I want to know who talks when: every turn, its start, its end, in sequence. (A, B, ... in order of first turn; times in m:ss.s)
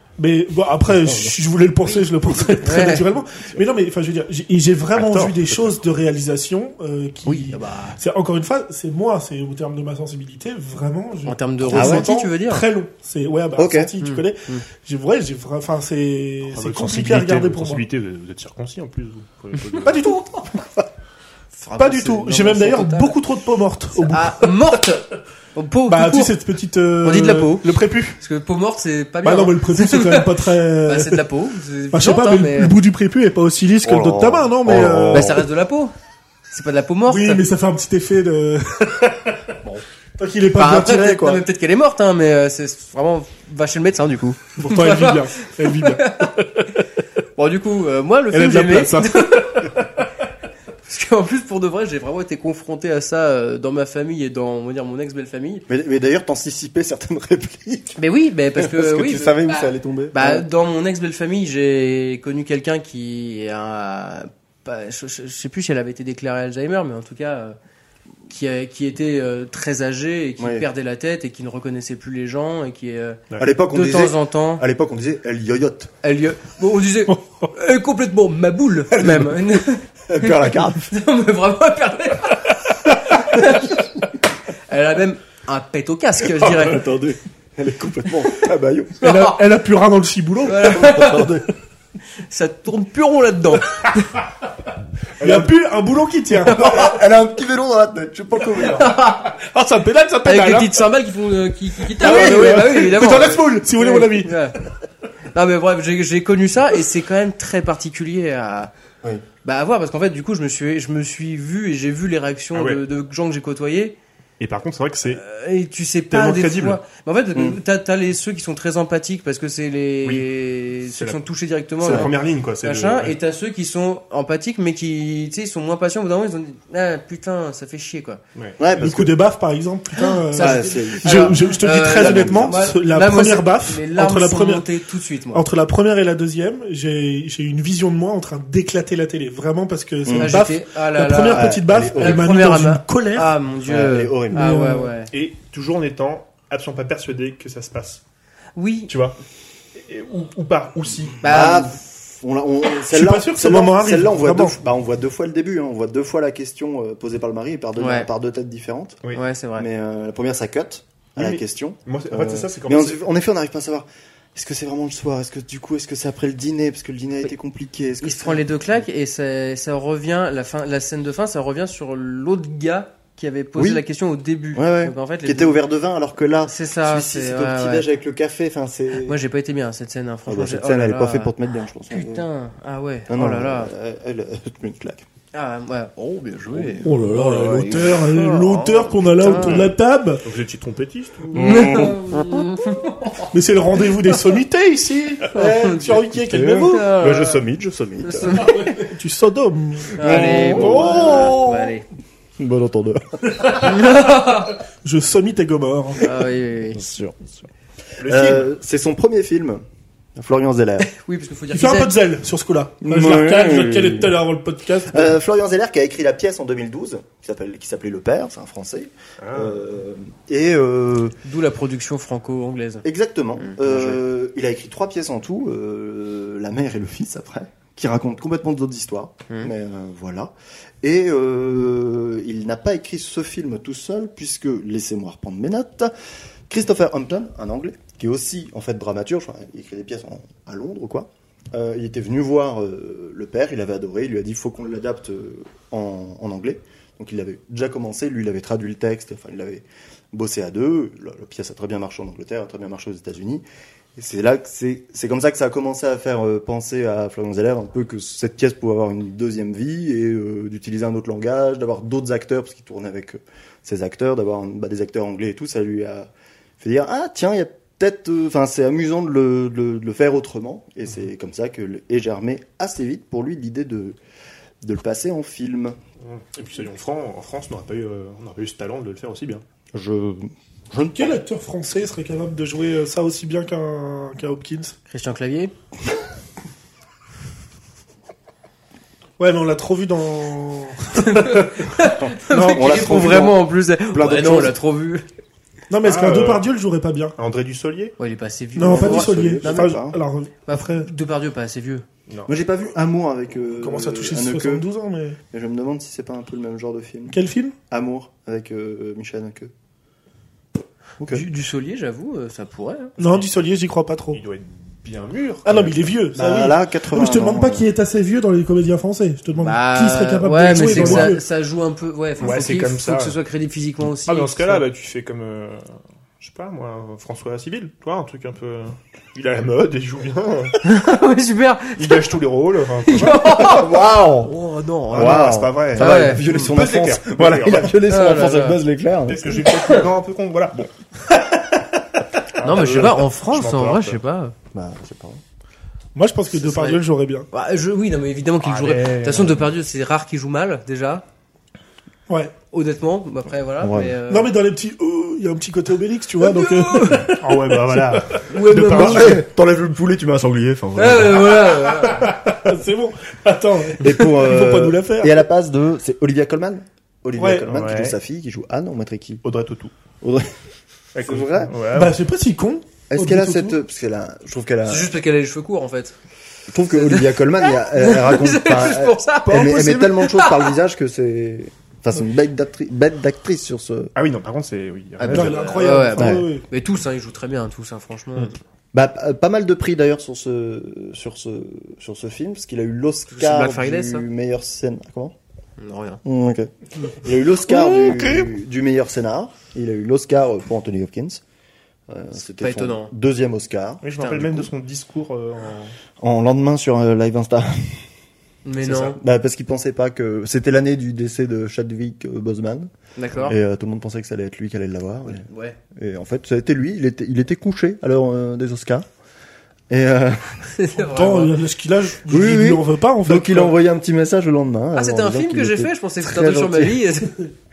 0:00.2-0:17.8 A
0:00.9-0:01.4 B
0:01.8-0:03.1 C
0:05.0-0:05.7 D
0:07.3-0:08.0 C
0:11.3-0:12.7 C
0:11.7-0:12.1 B
0:13.6-0:13.9 B
0:14.0-0:14.6 C
0:16.5-0:20.0 D
0:19.8-0:20.8 A
0:21.5-0:23.2 C
0:21.8-0:24.6 A
0:23.9-0:26.4 C
0:25.9-0:28.2 A
0:27.0-0:32.8 C
0:29.2-0:31.3 A
0:31.9-0:35.4 A
0:33.8-0:35.5 B
0:35.1-0:35.9 C
0:36.5-0:37.4 C
0:37.1-0:39.5 A
0:40.2-0:41.4 A
0:40.5-0:46.3 C
0:44.6-0:46.8 A
0:47.4-0:49.8 C
0:48.3-0:49.7 A
0:50.8-0:55.6 C
0:55.7-0:58.0 B
0:58.0-1:07.6 C
0:58.6-1:00.5 B
1:08.3-1:14.6 C
1:10.4-1:10.7 B
1:13.4-1:15.9 B
1:16.0-1:23.9 C
1:19.0-1:19.3 B
1:20.1-1:20.9 B
1:24.7-1:26.9 C
1:26.4-1:29.0 B
1:29.0-1:31.3 A
1:29.0-1:29.4 C
1:30.5-1:31.4 C
1:30.6-1:31.4 B
1:32.2-1:34.2 C
1:35.2-1:35.5 B
1:35.2-1:36.9 A
1:36.5-1:39.0 B
1:36.5-1:36.9 C
1:38.5-1:39.4 C
1:39.4-1:40.7 A
1:40.2-1:44.6 C
1:41.9-1:44.4 A
1:45.3-1:48.7 C
1:49.4-1:54.0 C
1:52.5-1:52.8 D
1:54.4-1:55.2 D
1:55.1-2:08.2 C
1:56.1-1:56.8 D
1:57.3-1:57.6 B
2:00.8-2:01.2 D
2:01.8-2:03.2 D
2:01.8-2:02.1 B
2:08.6-2:09.2 B
2:08.8-2:14.7 A
2:10.0-2:15.4 C
2:10.4-2:12.6 B
2:15.3-2:23.3 A
2:20.0-2:20.4 B
2:20.1-2:25.1 C
2:21.3-2:22.5 B
2:23.6-2:24.5 B
2:24.3-2:24.9 A
2:25.1-2:28.0 D
2:28.6-2:28.9 C
2:28.9-2:29.2 D
2:29.8-2:31.5 D
2:31.2-2:31.7 C
2:31.2-2:39.0 B
2:32.9-2:34.6 A
2:37.8-2:38.1 C
2:39.1-2:39.7 C
2:39.6-2:48.5 B
2:41.2-2:43.0 D
2:48.0-2:55.6 C
2:53.6-2:53.8 B
2:54.5-2:59.2 B
2:56.4-2:57.9 C
2:59.0-3:01.3 C
3:00.3-3:02.3 B
3:01.9-3:03.7 C
3:03.1-3:05.0 B
3:05.3-3:09.7 C
3:06.5-3:07.9 B
3:06.8-3:10.2 A
3:10.2-3:11.8 D
3:11.3-3:12.2 B
3:11.3-3:13.3 C
3:13.3-3:16.9 A
3:15.3-3:17.4 C
3:16.3-3:18.5 B
3:18.0-3:18.8 C
3:18.4-3:20.1 A
3:20.0-3:21.8 C
3:20.0-3:21.8 B
3:20.4-3:21.4 D
3:22.4-3:23.8 B
3:23.4-3:23.8 A
3:23.5-3:24.6 C
3:24.8-3:26.1 A
3:26.0-3:26.8 C
3:26.7-3:27.4 B
3:28.0-3:28.5 D
3:28.0-3:29.6 B
3:30.2-3:30.9 B
3:30.8-3:32.0 C
3:31.5-3:35.2 A
3:32.8-3:34.2 B
3:34.9-3:41.2 B
3:39.2-3:39.6 D
3:41.2-3:42.8 C
3:42.8-3:55.9 B
3:43.4-3:44.0 C
3:56.5-4:13.4 B
4:14.0-4:34.0 B
4:34.6-4:35.8 B
4:36.0-4:39.4 D
4:39.7-4:41.1 B
4:41.0-4:44.8 A
4:44.9-4:45.5 C
4:49.2-4:51.4 A
4:51.0-4:55.1 C
4:52.0-4:54.6 B
4:52.3-4:52.8 A
4:55.7-4:57.2 A
4:55.8-4:56.4 D
4:57.2-4:58.0 D
4:58.0-4:59.8 C
4:58.6-5:00.9 A
4:58.6-5:00.0 B
5:00.5-5:01.9 C
5:02.3-5:04.6 B
5:03.6-5:05.2 A
5:05.3-5:07.2 B
5:07.1-5:07.6 A
5:07.7-5:09.5 B
5:11.0-5:11.3 B
5:11.1-5:13.2 C
5:13.0-5:14.2 A
5:14.1-5:15.9 D
5:15.4-5:21.2 A
5:16.1-5:17.7 B
5:19.4-5:24.6 C
5:20.5-5:21.1 D
5:22.2-5:23.2 D
5:23.8-5:30.6 D
5:30.6-5:32.1 C
5:31.8-5:33.4 D
5:32.8-5:36.5 C
5:33.2-5:34.3 B
5:34.9-5:37.8 D
5:34.9-5:39.4 B
5:37.8-5:38.6 C
5:39.1-5:40.7 D
5:39.4-5:39.9 C
5:42.4-5:44.0 D
5:42.4-5:44.4 C
5:44.5-5:45.2 B
5:46.0-5:47.3 A
5:46.3-5:51.0 C
5:48.4-5:49.5 D
5:52.5-5:54.3 C
5:53.6-5:54.0 B
5:54.1-5:58.2 A
5:56.2-5:57.1 C
5:57.1-5:59.2 D
5:58.3-5:59.2 C
5:58.7-6:01.5 B
6:00.8-6:02.1 C
6:02.3-6:05.2 A
6:03.8-6:09.2 B
6:07.2-6:07.5 A
6:07.5-6:08.0 D
6:09.2-6:09.7 D
6:10.0-6:10.3 B
6:10.9-6:12.0 D
6:11.0-6:11.5 B
6:11.7-6:13.6 A
6:12.9-6:14.9 B
6:14.7-6:16.0 C
6:16.5-6:23.9 B
6:16.7-6:20.6 C
6:19.3-6:19.8 D
6:24.0-6:25.7 D
6:25.0-6:28.4 C
6:25.1-6:26.5 A
6:26.0-6:26.3 B
6:28.7-6:35.2 B
6:33.1-6:34.0 C
6:35.6-6:36.0 C
6:36.0-6:41.2 B
6:41.9-6:44.4 B
6:42.4-6:42.9 C
6:43.8-6:45.8 D
6:44.0-6:44.4 C
6:46.0-6:47.9 B
6:48.4-6:49.0 C
6:48.6-6:58.9 B
6:53.0-6:53.4 C
6:55.2-6:55.6 C
6:59.7-7:00.5 B
7:00.5-7:01.4 C
7:00.8-7:03.5 A
7:02.1-7:06.8 B
7:04.8-7:07.3 C